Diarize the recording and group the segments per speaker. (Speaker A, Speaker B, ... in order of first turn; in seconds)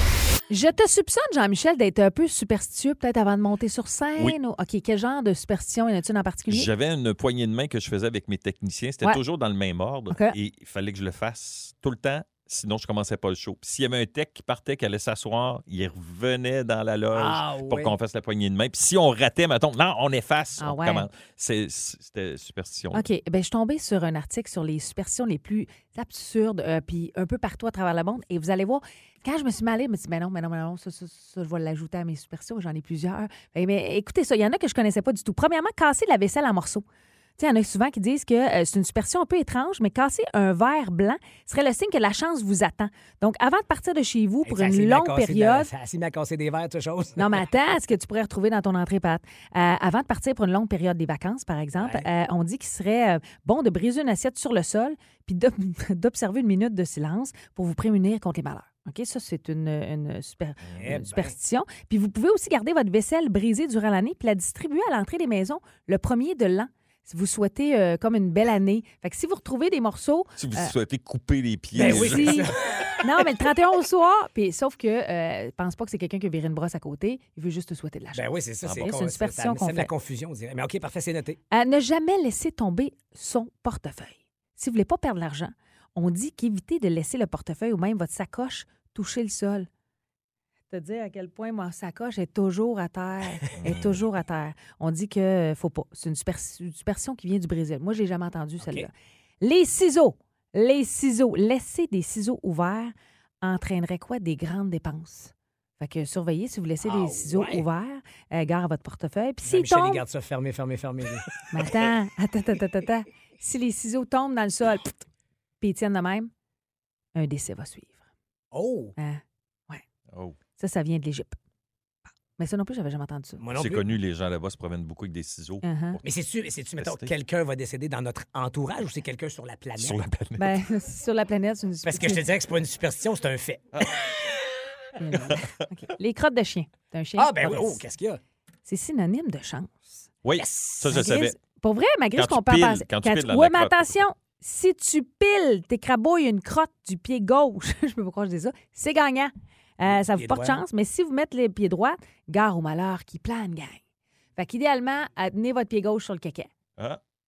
Speaker A: 0.5-6.7, 10.1-10.3, 20.6-21.1, 22.9-36.8, 37.4-45.7, 47.2-70.7, 71.8-72.5, 73.0-78.2, 78.8-79.9, 81.5-89.7, 90.7-110.0, 111.5-115.0, 115.6-116.3, 117.1-118.0, 119.0-119.8, 120.6-121.3, 122.4-123.4, 125.6-126.0, 130.4-132.2, 135.0-137.8, 138.7-140.0, 140.9-153.8, 154.4-156.5
Speaker B: 6.5-23.1, 70.4-72.5, 78.6-78.9, 93.6-94.0, 120.1-120.4, 123.5-126.0, 126.8-127.1, 129.8-130.6, 135.1-135.5, 140.2-141.3, 142.2-143.9
Speaker C: 17.1-17.9, 44.5-47.4, 51.8-52.1, 60.8-61.3, 71.8-73.0, 78.1-81.4, 98.6-98.9, 106.8-107.6, 109.4-111.4, 118.5-118.9, 123.4-123.9, 126.0-130.0, 131.8-134.3, 137.2-138.2, 140.4-140.9, 149.9-150.6